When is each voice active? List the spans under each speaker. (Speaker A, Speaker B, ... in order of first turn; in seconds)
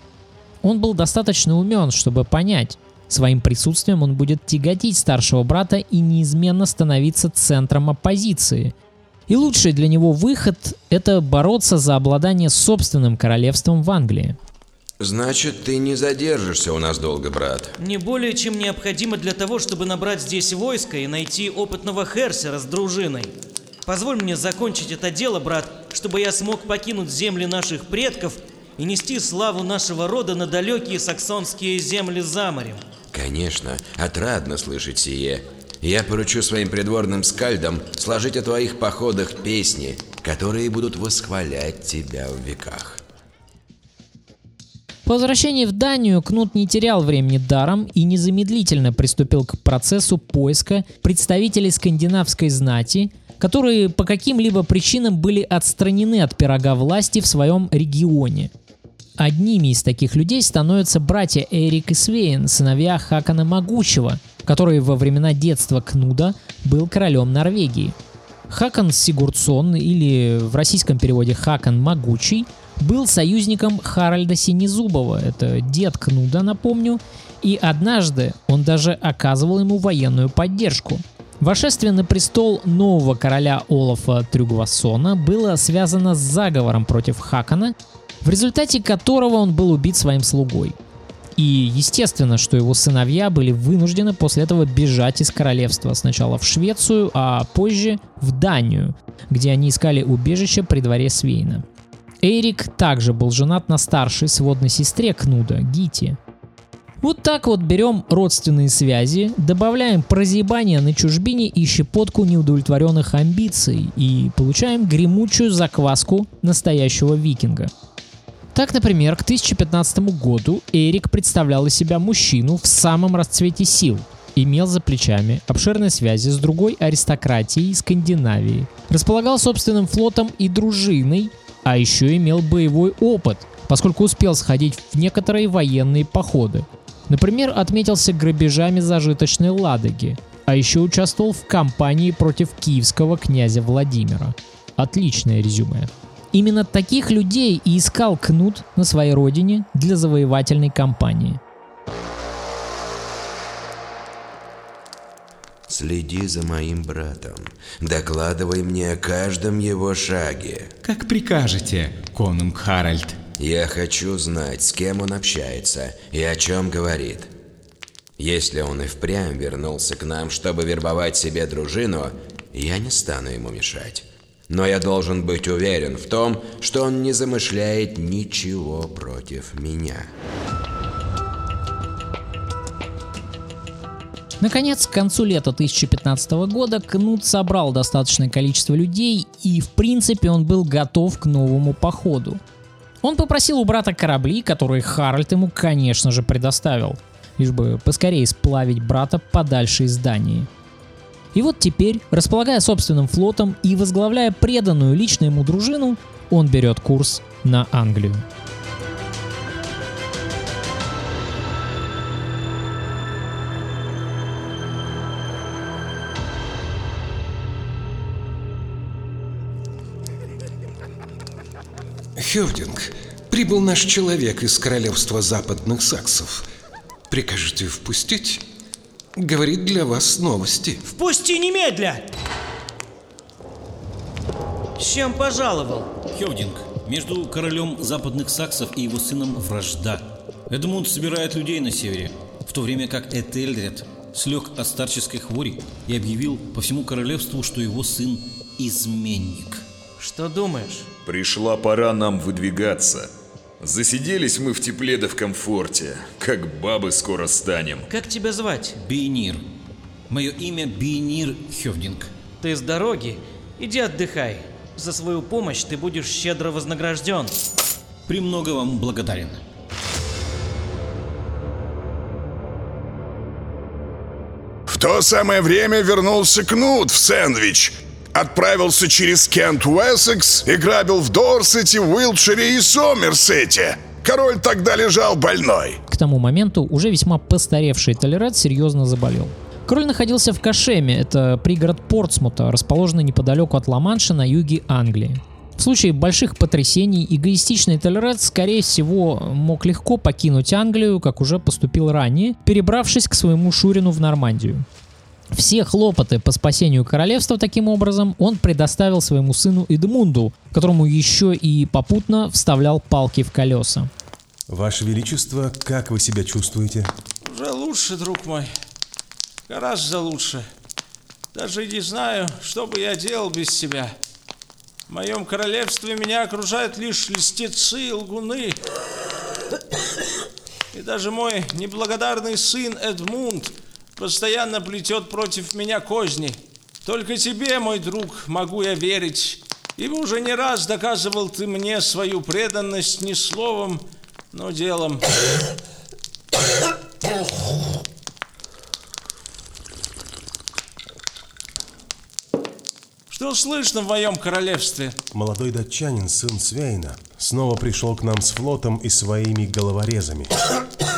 Speaker A: 0.6-8.7, 9.3-14.4, 45.0-58.5, 59.2-67.9, 68.5-90.8, 91.3-101.6, 102.2-106.2, 107.0-117.7, 118.5-151.4, 184.4-192.4, 193.0-200.5, 201.3-208.2, 285.9-304.6, 305.3-313.9
Speaker B: 15.0-17.7, 33.1-43.0, 155.7-160.7, 163.4-167.3, 168.2-180.1
Speaker C: 17.8-23.3, 23.9-32.8, 230.9-232.0, 234.8-235.9, 250.0-250.9, 257.9-258.8, 262.4-267.3
Speaker D: 160.8-163.2
Speaker E: 222.2-226.4, 227.1-228.4, 229.2-230.8
Speaker F: 236.1-249.6, 258.8-259.4, 260.1-262.1, 268.1-269.4
Speaker G: 251.0-257.9
Speaker H: 274.7-285.8
Speaker I: 314.5-316.9, 355.1-360.3
Speaker J: 317.2-318.5, 319.5-320.5, 321.3-323.9, 324.9-328.6, 330.7-345.0, 353.1-354.9